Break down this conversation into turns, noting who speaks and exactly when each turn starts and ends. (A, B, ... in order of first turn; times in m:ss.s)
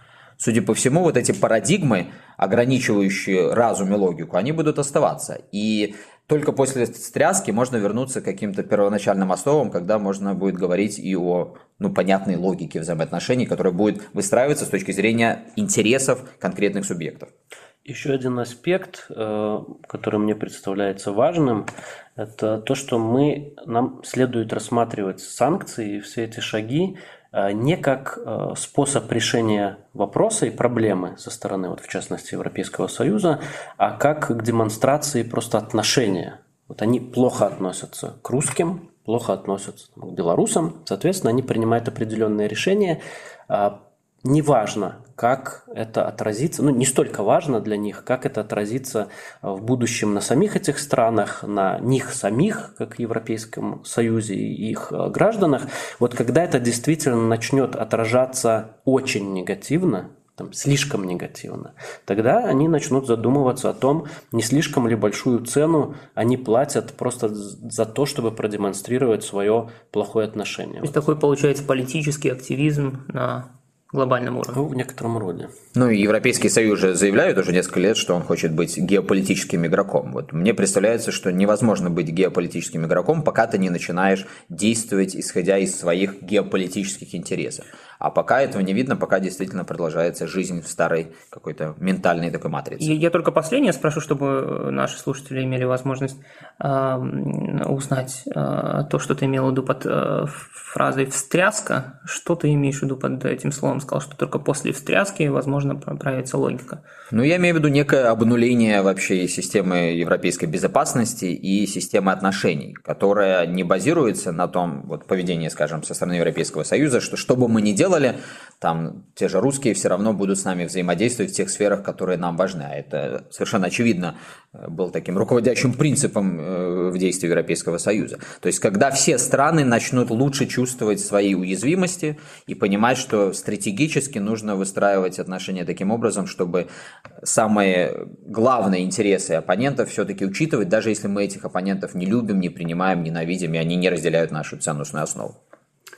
0:00.4-0:17.3 A
0:17.8-1:11.0 B
1:10.8-1:14.6 C
1:14.5-1:15.5 B
1:15.7-1:32.9 A
1:32.8-1:46.8 C
1:47.1-2:16.6 A
2:17.2-2:25.4 A